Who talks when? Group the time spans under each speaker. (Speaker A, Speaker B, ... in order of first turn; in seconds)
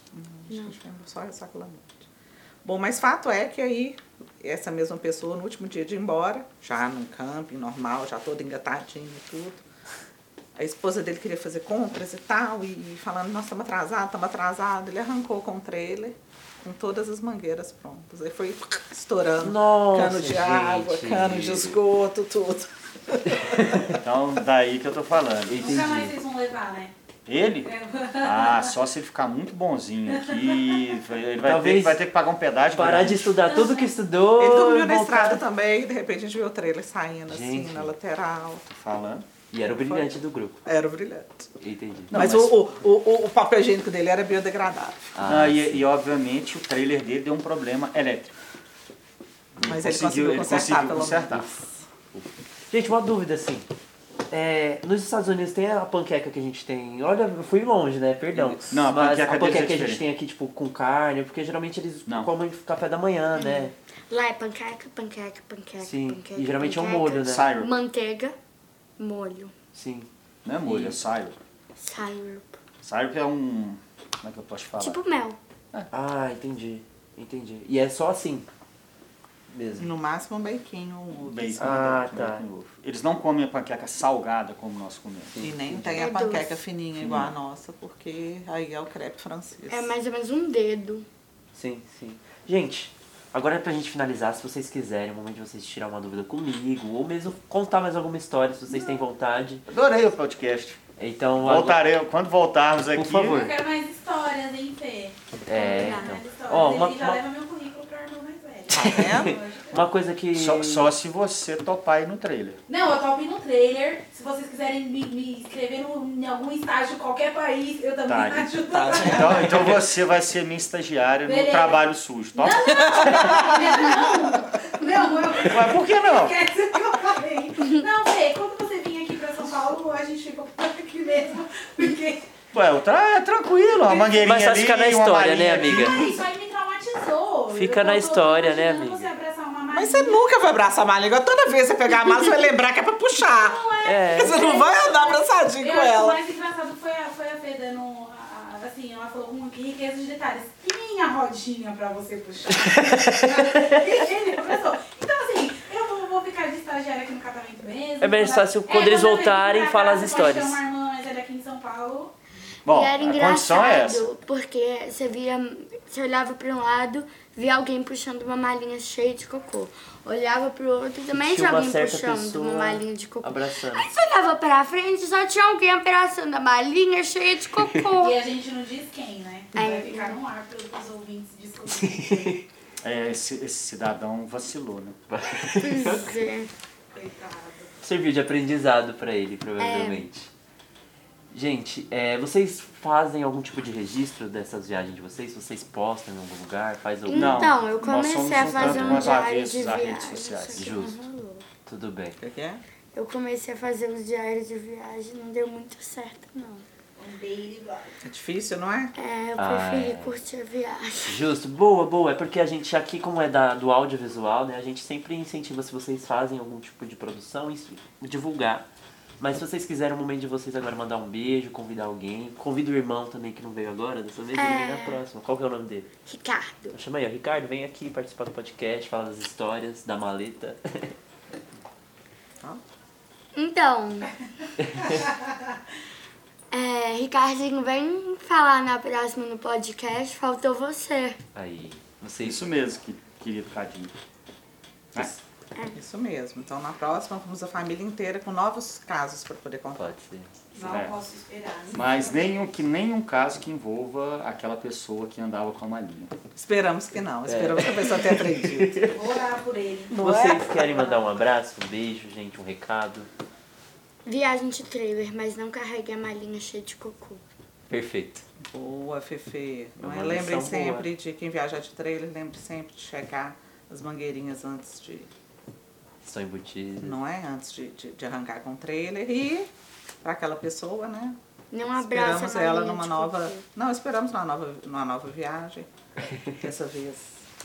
Speaker A: 0.1-2.0, 2.6-9.6, 10.5-23.8, 34.4-38.6, 39.8-40.1, 40.6-41.5, 42.1-45.0, 49.6-51.3, 79.8-82.0, 85.4-89.9, 108.7-109.4, 118.8-119.2, 123.5-123.8, 139.7-146.2, 202.2-202.6, 208.0-208.9, 245.7-249.9, 256.3-258.9, 259.9-260.9, 268.5-275.1, 276.8-279.5, 280.0-281.2, 281.7-285.7, 286.3-287.2
Speaker B: 0.5-0.8, 63.4-68.3, 69.0-69.5, 71.8-72.6, 74.8-75.4, 85.9-86.6, 89.7-91.1, 105.5-106.2, 162.7-178.2, 179.5-180.2, 185.6-186.5, 189.6-190.0, 197.1-201.4, 202.9-206.7, 208.9-211.2, 224.3-225.0, 226.1-226.8, 233.3-234.1, 236.5-241.2, 264.0-267.2, 281.5-283.4
Speaker C: 19.4-21.8, 23.4-24.0, 25.4-26.1, 31.4-32.0, 32.7-35.4, 37.3-37.9, 39.5-40.6, 41.6-42.2, 45.1-45.8, 51.1-53.7, 54.3-63.7, 65.8-67.5, 69.7-70.1, 70.6-71.1, 75.9-78.5, 79.5-79.9, 81.6-82.4, 85.3-86.2, 87.0-87.3, 91.5-99.6, 101.0-101.8, 102.9-103.5, 105.4-107.2, 108.8-110.9, 118.8-119.8, 123.1-123.4, 134.2-136.0, 137.5-139.1, 143.8-144.3, 152.5-153.8, 158.0-160.6, 171.1-173.9, 181.7-182.4, 185.1-186.1, 187.8-190.3, 191.3-197.5, 198.3-199.2, 200.6-201.0, 201.7-202.2, 209.4-210.2, 211.0-218.7, 219.2-225.9, 226.7-230.9, 241.3-242.5, 249.7-250.3, 257.2-259.0, 259.9-263.1, 267.7-268.2, 269.8-270.9, 276.0-277.0
Speaker D: 24.0-25.9, 27.2-33.4, 38.6-39.3, 42.1-42.6, 45.2-48.4, 49.6-51.5, 58.3-60.0, 67.2-67.7, 70.4-71.4, 72.8-75.0, 81.2-85.4, 99.7-100.8, 101.4-103.4, 110.3-112.6, 118.0-123.5, 125.4-126.4, 132.5-136.2, 162.7-164.1, 182.8-184.9, 197.1-200.7, 242.2-243.9, 250.6-251.0, 251.7-256.1
Speaker E: 25.6-26.9, 27.6-28.7, 30.1-30.8, 33.5-33.9, 103.3-109.8, 112.7-119.7, 121.2-132.2, 133.5-134.2, 135.6-140.3, 143.2-162.1, 178.0-182.4, 186.9-187.7, 207.0-208.0, 250.5-252.2, 258.9-259.9